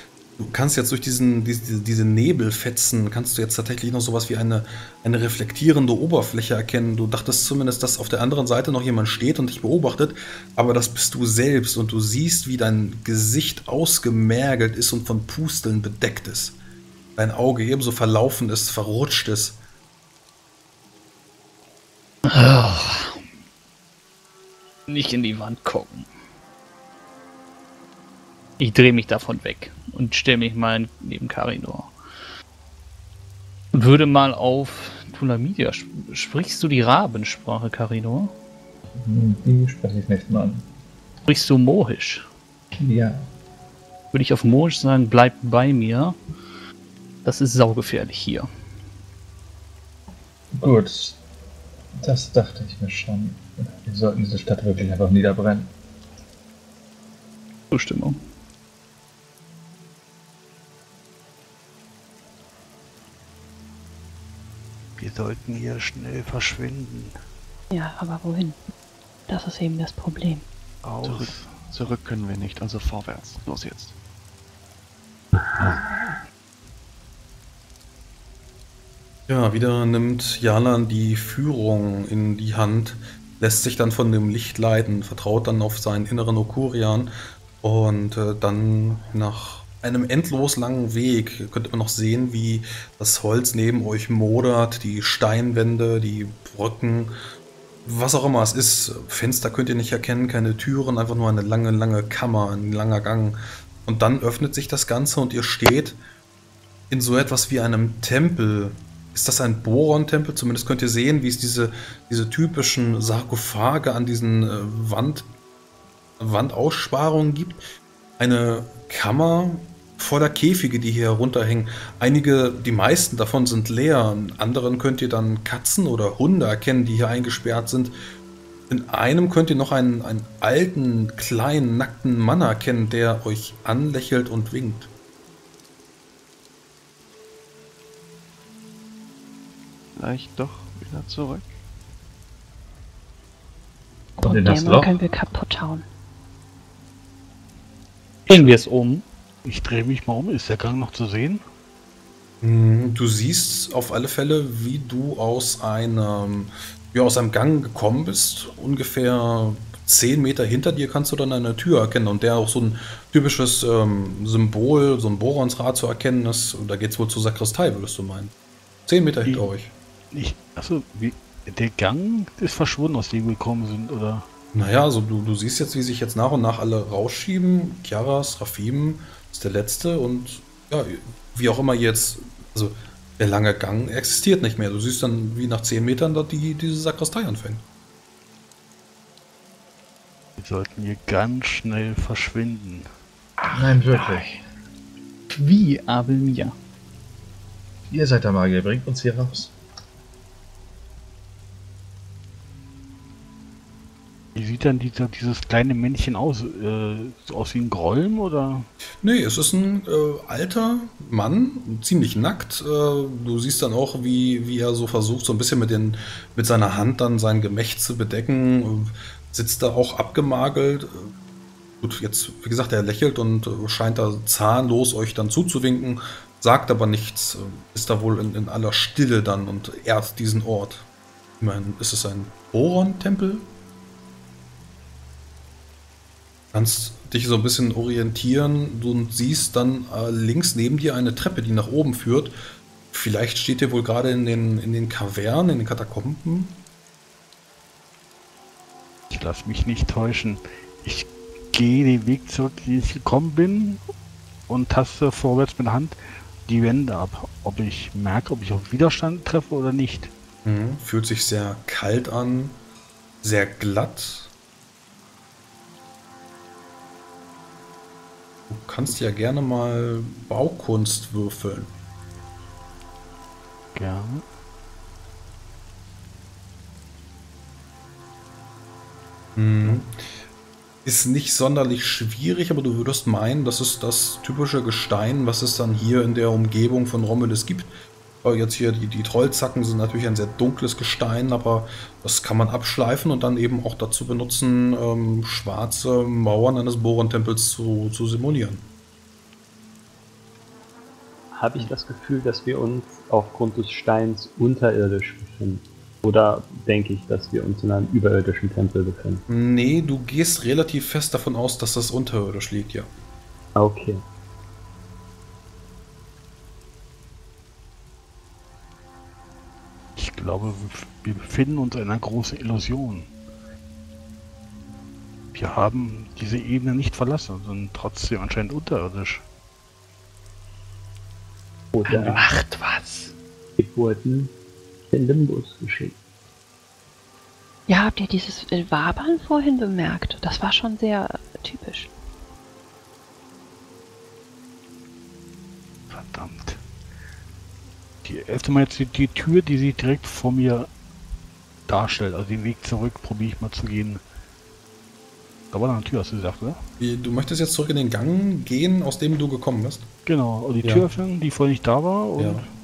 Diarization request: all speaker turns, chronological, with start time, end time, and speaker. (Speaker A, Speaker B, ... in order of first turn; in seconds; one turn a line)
Speaker A: 0.4-16.6
Speaker A: 17.1-19.6
Speaker B: 22.3-23.2
Speaker B: 24.9-26.1
Speaker B: 28.6-31.9
Speaker B: 33.7-38.3
Speaker C: 39.0-40.6
Speaker B: 41.3-42.2
Speaker C: 42.8-43.2
Speaker B: 44.1-46.2
Speaker B: 47.2-48.5
Speaker C: 50.5-51.2
Speaker C: 52.0-55.7
Speaker B: 57.7-58.2
Speaker D: 65.0-67.1
Speaker E: 67.7-68.6
Speaker E: 69.3-70.5
Speaker D: 70.8-71.6
Speaker F: 71.0-74.0
Speaker G: 75.4-75.8
Speaker A: 79.3-97.1
Speaker A: 97.8-106.0
Speaker A: 106.9-115.3
Speaker A: 116.2-117.6
Speaker A: 118.2-128.0
Speaker A: 128.7-134.9
Speaker F: 139.9-141.6
Speaker C: 144.2-145.1
Speaker E: 144.2-145.8
Speaker D: 148.2-148.6
Speaker B: 148.3-149.1
Speaker D: 149.4-151.4
Speaker A: 152.4-168.3
Speaker A: 168.9-169.7
Speaker D: 170.1-174.2
Speaker A: 174.5-187.6
Speaker D: 190.4-192.9
Speaker B: 193.4-194.3
Speaker C: 193.5-194.4
Speaker B: 195.3-196.6
Speaker C: 197.9-199.5
Speaker D: 204.3-208.7
Speaker A: 209.0-221.1
Speaker A: 221.8-230.9
Speaker A: 231.4-233.5
Speaker A: 236.5-242.3
Speaker A: 242.9-246.6
Speaker D: 249.1-253.8
Speaker D: 254.5-260.1
Speaker A: 260.4-262.6
Speaker A: 263.2-264.3
Speaker A: 268.5-271.7
Speaker D: 273.7-274.2
Speaker A: 279.4-279.9
Speaker A: 280.9-298.7
Speaker G: 301.3-309.2
Speaker A: 309.3-312.9
Speaker G: 313.6-314.0
Speaker D: 319.9-323.1
Speaker D: 325.3-329.2
Speaker G: 331.7-332.2
Speaker B: 331.9-333.1
Speaker G: 333.6-334.4
Speaker G: 334.9-335.9
Speaker E: 337.7-341.9
Speaker D: 345.9-346.6
Speaker D: 348.0-350.7
Speaker D: 351.7-354.0
Speaker D: 355.5-356.6
Speaker A: 356.8-359.9
Speaker D: 360.1-362.5
Speaker A: 360.6-360.9
Speaker A: 362.2-362.4